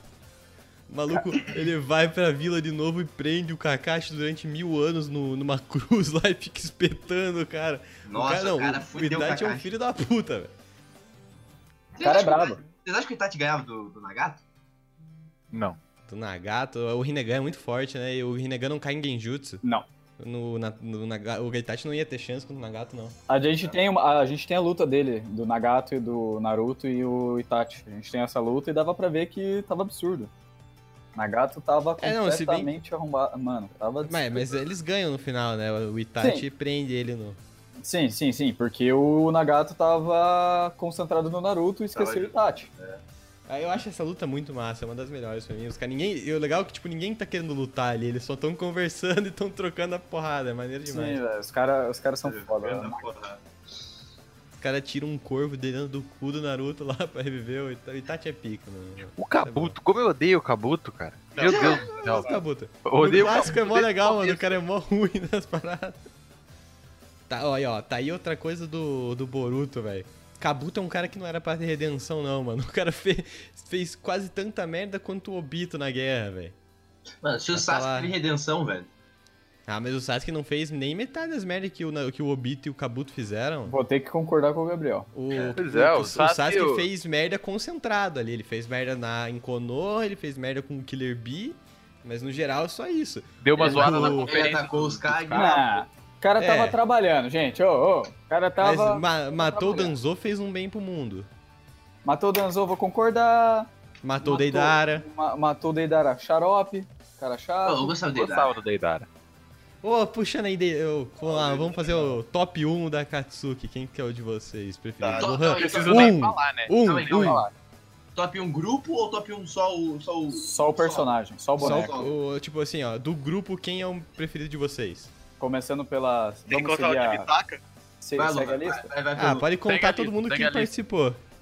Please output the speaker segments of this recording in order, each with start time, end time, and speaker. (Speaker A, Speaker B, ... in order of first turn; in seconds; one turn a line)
Speaker A: 0.9-10.5
Speaker B: 8.0-9.7
Speaker B: 11.9-14.4
Speaker C: 12.0-12.6
Speaker D: 15.5-15.8
Speaker A: 16.1-19.6
Speaker A: 20.2-23.1
Speaker C: 23.3-30.3
Speaker C: 31.1-34.5
Speaker A: 32.0-32.7
Speaker A: 34.0-37.4
Speaker C: 36.2-36.4
Speaker C: 37.8-42.7
Speaker B: 41.9-43.0
Speaker A: 43.5-51.2
Speaker C: 50.9-53.0
Speaker B: 52.2-53.4
Speaker A: 54.5-59.8
Speaker D: 59.2-62.3
Speaker E: 61.4-62.3
Speaker B: 61.5-61.9
Speaker A: 62.0-66.0
Speaker D: 62.8-64.6
Speaker A: 67.3-76.5
Speaker B: 77.2-78.9
Speaker A: 77.5-78.1
Speaker A: 79.7-83.8
Speaker C: 83.7-85.1
Speaker A: 85.1-94.3
Speaker B: 85.3-85.6
Speaker D: 85.6-86.9
Speaker D: 93.4-95.5
Speaker B: 93.6-95.8
Speaker C: 95.3-99.9
Speaker A: 96.4-96.8
Speaker A: 98.6-101.3
Speaker C: 102.0-103.7
Speaker A: 104.0-105.0
Speaker C: 104.2-108.0
Speaker B: 107.6-108.5
Speaker D: 108.1-109.1
Speaker A: 109.8-117.5
Speaker E: 111.2-112.1
Speaker E: 115.0-115.8
Speaker B: 115.2-116.1
Speaker D: 115.5-117.5
Speaker B: 116.8-117.5
Speaker B: 118.1-122.1
Speaker C: 120.3-121.9
Speaker A: 121.6-125.1
Speaker C: 125.4-127.3
Speaker E: 126.5-127.6
Speaker C: 128.0-128.9
Speaker B: 128.2-129.5
Speaker A: 129.2-131.2
Speaker D: 129.7-130.7